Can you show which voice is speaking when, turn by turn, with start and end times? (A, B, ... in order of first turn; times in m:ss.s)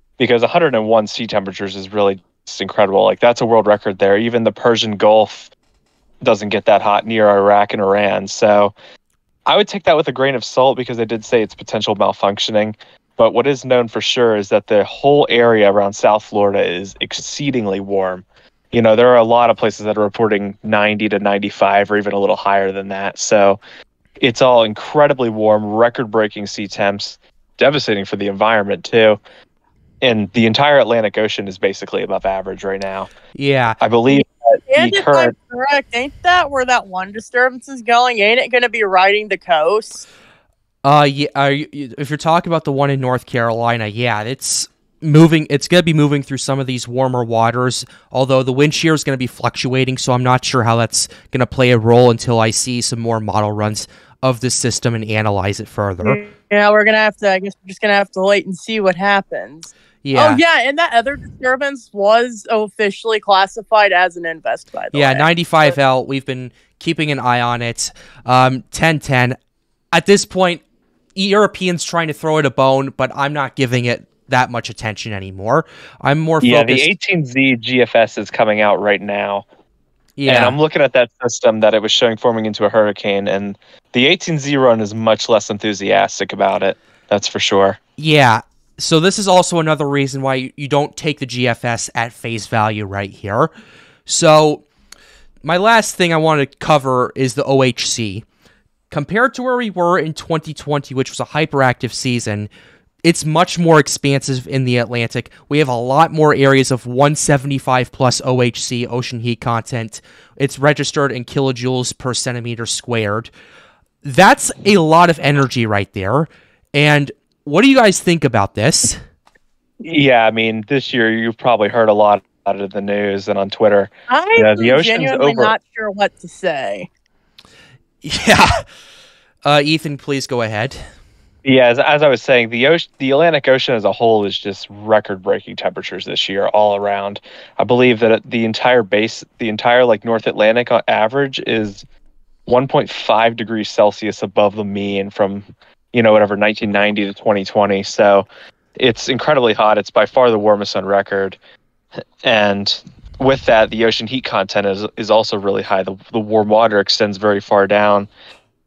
0:00.2-0:05.5 A
0:06.2-0:08.7 A
0:09.5-0:23.6 A
0:24.2-0:29.2 A
0:30.0-0:33.1 A
0:33.4-0:33.8 B
0:33.8-0:35.3 A
0:34.1-0:40.0 C
0:40.8-0:56.2 B
0:56.0-1:05.7 C
1:00.0-1:00.4 B
1:04.9-1:09.4 B
1:09.9-1:10.6 B
1:11.2-1:16.8 B
1:16.4-1:19.4 A
1:20.2-1:20.5 B
1:20.2-1:27.8 A
1:28.0-1:33.5 B
1:34.1-1:34.6 B
1:35.4-1:38.2 B
1:38.9-1:42.5 B
1:43.0-1:53.3 B
1:54.0-1:59.0 B
1:59.8-2:05.6 A
2:04.1-2:06.9 C
2:08.0-2:08.5 B
2:09.4-2:10.8 B
2:11.4-2:21.8 A
2:22.5-2:31.4 A
2:32.2-2:38.1 A